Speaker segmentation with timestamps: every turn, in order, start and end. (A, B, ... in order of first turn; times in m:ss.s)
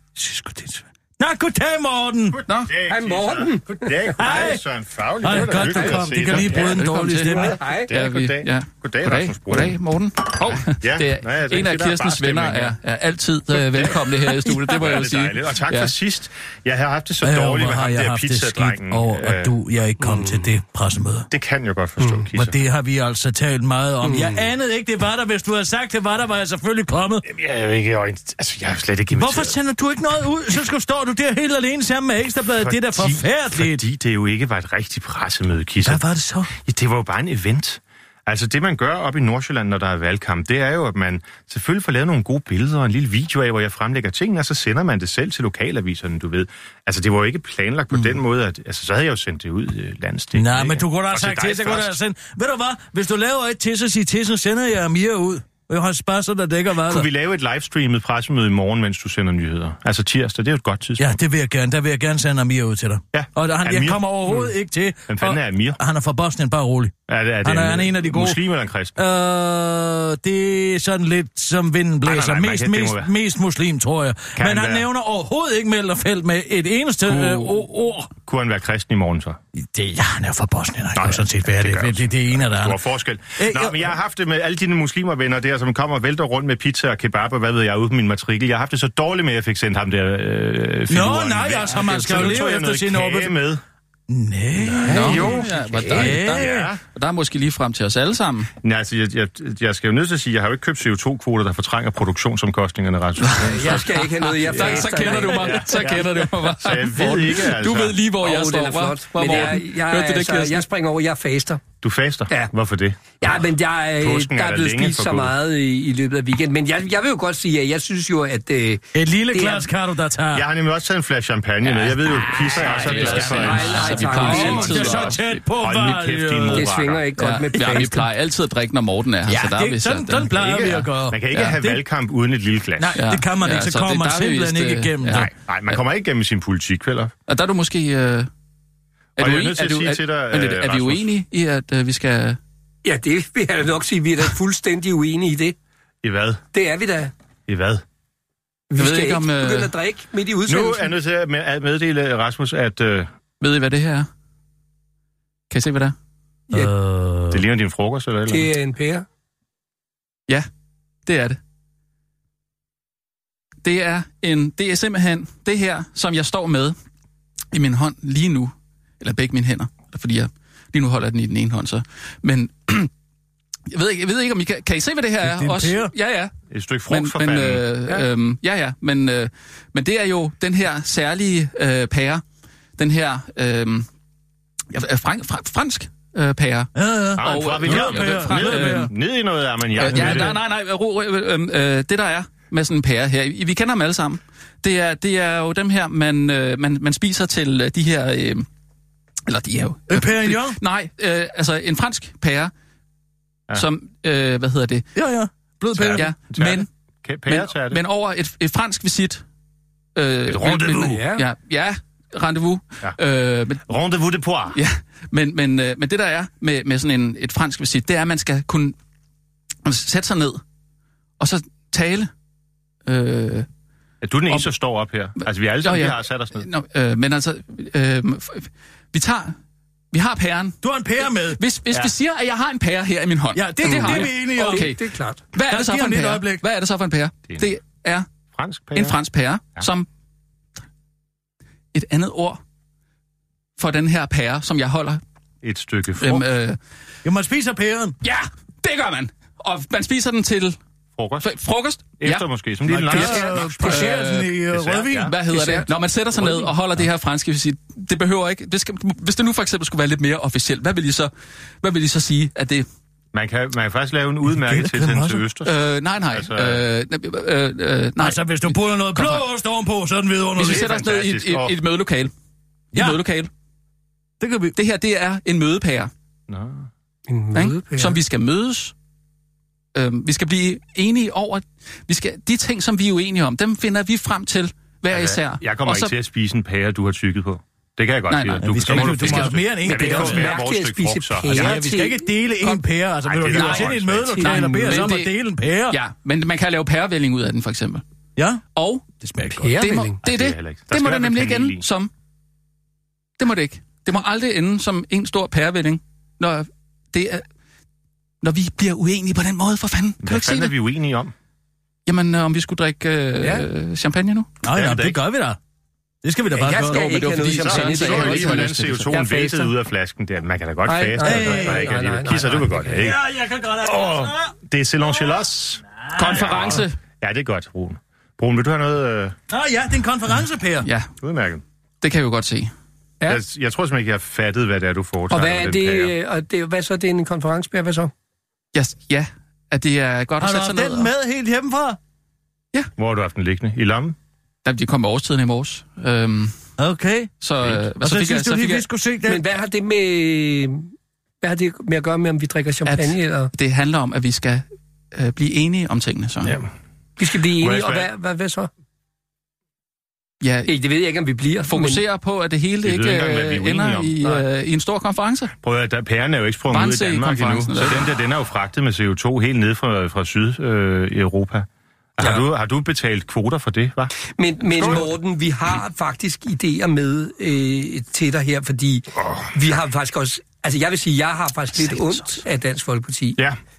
0:00.1-0:02.4 A
0:02.3-0:06.8 B
0:02.5-0:02.7 C
0:02.9-0:04.4 D
0:04.2-0:04.6 A
0:05.2-0:07.6 A
0:05.6-0:06.0 D
0:06.3-0:15.9 C
0:07.3-0:07.9 D
0:07.8-0:09.8 B
0:10.4-0:12.8 B
0:13.5-0:19.5 B
0:17.2-0:21.3 A
0:20.0-0:20.4 D
0:21.3-0:22.6 B
0:22.3-0:27.2 A
0:24.0-0:24.5 D
0:27.2-0:29.6 B
0:29.1-0:33.8 A
0:32.6-0:51.9 B
0:35.8-0:36.5 A
0:50.3-0:57.1 A
0:56.8-1:01.1 B
1:01.0-1:08.4 A
1:03.1-1:04.5 B
1:05.1-1:05.8 B
1:07.1-1:09.0 B
1:09.0-1:18.1 A
1:12.0-1:13.1 B
1:14.4-1:14.9 B
1:17.1-1:17.5 B
1:18.2-1:19.4 B
1:19.5-1:22.8 A
1:20.9-1:33.6 B
1:23.4-1:24.0 A
1:30.9-1:33.3 A
1:34.1-1:36.7 A
1:34.6-1:36.8 B
1:34.8-1:38.5 C
1:38.6-1:43.9 B
1:43.2-1:50.6 C
1:43.4-1:46.0 D
1:44.6-1:48.0 B
1:48.2-1:51.6 D
1:51.8-1:53.1 B
1:53.2-1:59.7 D
1:54.0-1:55.4 B
1:58.9-2:00.5 A
2:00.3-2:07.0 B
2:01.6-2:05.4 C
2:02.4-2:06.7 A
2:02.8-2:05.0 D
2:06.5-2:08.0 D
2:07.2-2:10.6 C
2:07.6-2:08.0 A
2:09.2-2:11.8 A
2:10.3-2:13.0 B
2:12.8-2:15.8 C
2:13.0-2:15.3 A
2:15.1-2:17.1 B
2:17.3-2:18.3 C
2:19.2-2:22.4 C
2:19.2-2:21.1 B
2:22.8-2:25.6 D
2:26.0-2:26.4 B
2:26.5-2:27.1 D
2:27.5-2:27.8 B
2:28.7-2:30.9 D
2:28.8-2:29.7 C
2:30.5-2:33.1 B
2:33.4-2:34.1 C
2:35.5-2:35.9 C
2:36.5-2:37.4 A
2:37.3-2:38.5 B
2:38.3-2:39.0 D
2:41.1-2:41.4 C
2:43.6-2:46.8 C
2:47.5-2:52.9 C
2:53.7-2:56.3 C
2:55.2-2:55.9 A
2:56.5-2:58.1 B
2:56.9-3:02.2 C
3:02.8-3:03.9 C
3:04.7-3:08.9 C
3:06.7-3:08.9 A
3:07.2-3:10.4 B
3:09.8-3:18.4 C
3:09.9-3:10.4 A
3:19.3-3:22.5 C
3:19.9-3:20.6 A
3:23.5-3:24.8 C
3:24.9-3:26.0 A
3:25.7-3:27.8 B
3:25.9-3:26.7 C
3:27.3-3:29.2 C
3:30.0-3:33.6 C
3:30.3-3:30.9 B
3:30.6-3:31.2 D
3:33.7-3:34.6 B
3:34.5-3:38.7 C
3:39.6-3:40.4 C
3:41.2-3:42.1 C
3:42.8-3:43.5 C
3:44.0-3:46.4 B
3:45.6-3:49.4 C
3:49.9-3:58.1 C
3:50.6-3:51.4 A
3:53.3-3:54.7 A
3:53.6-3:55.2 D
3:55.5-3:56.4 A
3:58.3-3:59.0 B
3:58.7-3:59.9 C
4:01.7-4:02.4 C
4:03.6-4:05.0 C
4:05.4-4:06.2 B
4:06.0-4:06.6 C
4:07.0-4:08.0 A
4:08.0-4:10.6 C
4:11.0-4:11.3 B
4:11.2-4:12.2 C
4:12.0-4:13.7 B
4:12.6-4:15.1 A
4:12.9-4:14.4 C
4:13.0-4:13.7 D
4:14.5-4:15.1 B
4:14.9-4:21.1 C
4:15.3-4:15.6 D
4:21.6-4:22.6 C
4:23.1-4:25.5 B
4:24.2-4:25.2 A
4:25.4-4:29.2 C
4:26.1-4:26.6 B
4:28.0-4:30.7 A
4:30.4-4:32.1 C
4:30.4-4:31.5 B
4:32.7-4:33.0 A
4:32.7-4:33.3 C
4:34.2-4:34.5 A
4:34.5-4:35.9 C
4:36.3-4:36.7 B
4:37.1-4:38.0 D
4:37.3-4:38.7 C
4:39.7-4:45.9 C
4:44.9-4:51.6 B
4:48.1-4:50.0 C
4:48.4-4:50.3 A
4:49.6-4:52.6 D
4:51.3-4:55.8 A
4:53.0-4:54.2 B
4:53.3-4:54.8 D
4:54.2-4:55.1 C
4:55.7-4:57.8 C
4:58.2-4:58.4 A
4:58.5-4:58.8 C
4:59.0-4:59.6 A
4:59.4-5:00.0 D
4:59.6-5:01.9 C
5:00.0-5:01.6 B
5:03.2-5:07.2 C
5:08.2-5:10.6 C
5:10.0-5:11.1 B
5:11.9-5:14.4 C
5:13.2-5:13.4 D
5:14.4-5:15.4 A
5:14.5-5:15.0 B
5:16.0-5:17.1 A
5:16.3-5:19.5 D
5:16.7-5:18.9 C
5:17.4-5:23.0 B
5:20.6-5:22.9 D
5:21.0-5:21.8 A
5:22.8-5:25.2 A
5:23.6-5:29.2 B
5:25.8-5:26.6 A
5:25.9-5:26.8 C
5:29.3-5:30.7 A
5:30.6-5:30.9 C
5:31.0-5:31.4 B
5:31.8-5:32.5 C
5:33.1-5:35.9 B
5:35.1-5:37.9 D
5:38.5-5:40.9 C
5:40.2-5:41.8 A
5:42.8-5:44.0 B
5:44.4-5:46.3 C
5:46.6-5:47.1 A
5:47.2-5:48.6 C
5:47.8-5:49.2 A
5:49.1-5:50.7 D
5:51.2-5:53.3 D
5:52.6-5:56.4 C
5:57.0-5:58.5 D
5:57.3-5:57.9 B
6:00.2-6:00.5 C
6:00.4-6:01.8 D
6:01.5-6:05.3 C
6:02.6-6:04.1 B
6:05.4-6:13.9 B
6:06.5-6:07.9 C
6:14.0-6:23.2 D
6:14.4-6:14.9 B
6:19.0-6:19.3 B